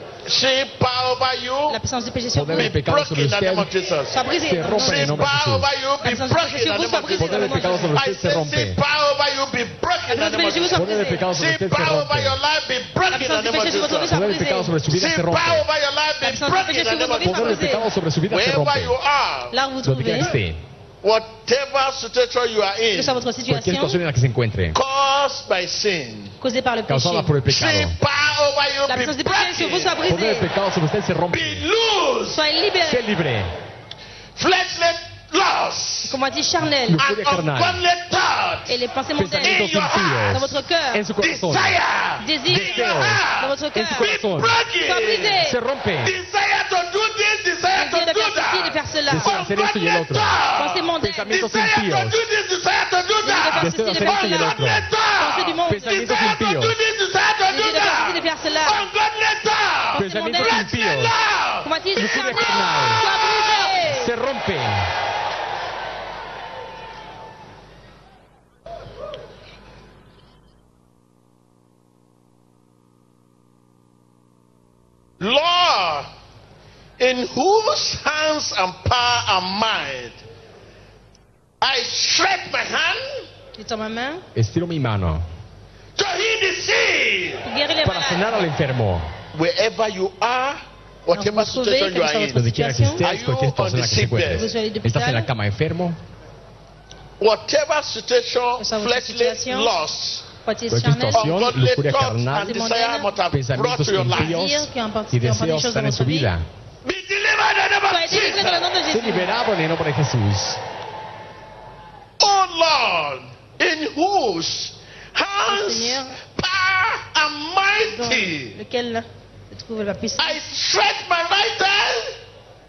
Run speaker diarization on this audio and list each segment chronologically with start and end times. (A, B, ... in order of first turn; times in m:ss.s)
0:00.3-0:01.8 A
0:01.7-0:02.8 B
0:02.3-0:03.7 C
0:02.5-0:04.2 A
0:04.1-0:05.4 B
0:04.4-0:05.7 C
0:04.7-0:14.2 A
0:06.0-0:08.0 B
0:07.2-0:08.8 C
0:10.1-0:11.2 B
0:10.7-0:12.4 C
0:13.1-0:14.8 B
0:14.1-0:15.7 C
0:14.9-0:19.6 A
0:16.2-0:17.9 B
0:17.2-0:19.0 C
0:19.5-0:20.3 B
0:19.8-0:20.6 C
0:21.0-0:23.2 A
0:22.9-0:24.0 B
0:23.5-0:24.8 C
0:24.7-0:26.4 A
0:26.4-0:27.4 B
0:26.9-0:28.0 C
0:27.5-0:30.1 A
0:28.9-0:30.5 B
0:30.1-0:31.6 C
0:31.3-0:32.4 A
0:32.3-0:33.0 B
0:32.8-0:33.6 C
0:34.4-0:36.2 A
0:36.1-0:37.0 B
0:36.9-0:37.8 C
0:37.0-0:38.8 A
0:38.7-0:41.0 B
0:39.2-0:41.8 C
0:39.4-0:40.5 A
0:41.2-0:45.4 A
0:42.2-0:44.1 B
0:42.5-0:43.2 C
0:43.7-0:44.6 C
0:44.8-0:45.6 B
0:45.4-0:46.2 C
0:46.0-1:03.7 A
0:47.7-0:49.5 B
0:49.1-0:50.5 C
0:50.5-0:51.5 B
0:51.0-0:52.2 C
0:53.2-0:56.2 B
0:53.6-0:54.9 C
0:55.7-0:56.8 C
0:57.5-0:58.8 B
0:59.9-1:00.7 B
1:00.0-1:01.1 C
1:01.6-1:04.1 B
1:02.0-1:03.0 C
1:03.8-1:04.9 C
1:15.2-1:16.1 A
1:17.0-1:20.2 A
1:21.6-1:23.3 A
1:23.6-1:24.2 B
1:24.4-1:25.2 C
1:26.0-1:27.5 A
1:27.4-1:28.4 B
1:27.8-1:29.1 C
1:29.3-1:32.4 A
1:31.1-1:33.0 B
1:32.3-1:36.0 C
1:33.0-1:34.5 A
1:34.3-1:35.3 B
1:37.2-1:40.3 A
1:38.6-1:39.7 B
1:40.4-1:41.5 B
1:40.7-1:42.5 C
1:41.1-1:44.4 A
1:42.4-1:43.1 B
1:43.3-1:46.5 C
1:44.1-1:46.3 B
1:46.8-1:48.7 A
1:47.9-1:49.4 B
1:48.9-1:50.6 C
1:52.2-1:58.6 A
1:55.5-1:56.2 B
1:57.9-2:00.5 B
2:00.2-2:02.2 A